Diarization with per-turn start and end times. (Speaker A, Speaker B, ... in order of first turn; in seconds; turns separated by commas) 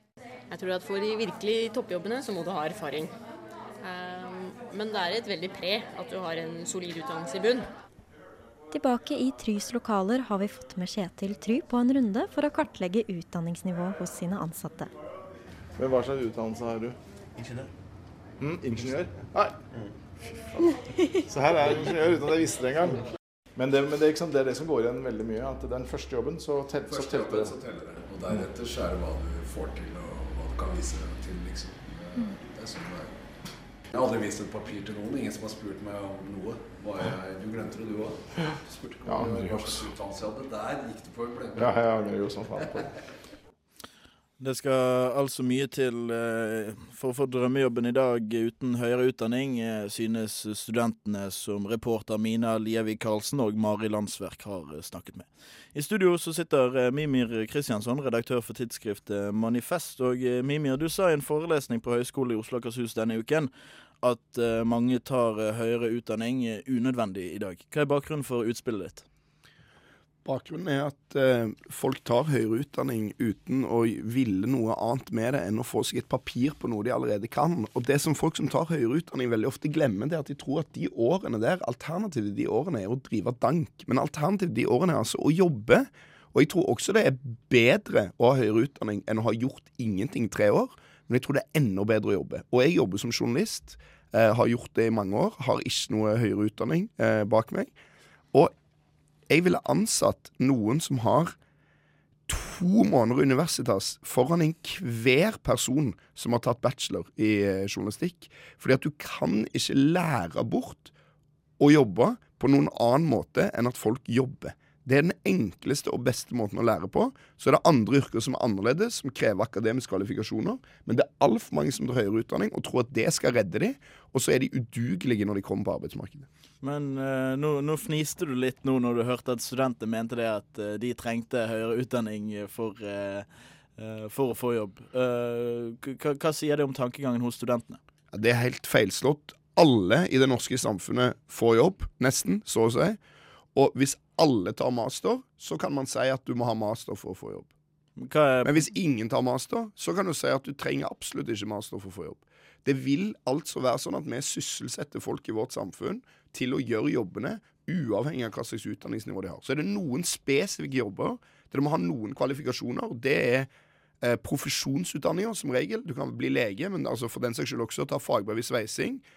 Speaker A: 0.5-3.1, Speaker A: 3.8-7.6, Speaker B: 8.7-14.9, Speaker C: 15.8-16.9, Speaker C: 18.4-19.6, Speaker C: 21.2-27.6, Speaker D: 26.9-33.2, Speaker D: 33.9-41.8, Speaker C: 39.0-39.9, Speaker C: 41.6-42.8, Speaker D: 42.6-42.9, Speaker E: 44.4-63.5, Speaker E: 64.0-69.0, Speaker F: 70.2-97.7, Speaker F: 99.3-101.3, Speaker F: 102.3-110.9, Speaker F: 111.6-126.3, Speaker E: 126.6-133.2, Speaker E: 133.8-137.8, Speaker F: 138.1-143.0, Speaker F: 143.5-147.5, Speaker E: 148.0-148.7, Speaker F: 148.4-163.5, Speaker F: 164.0-169.0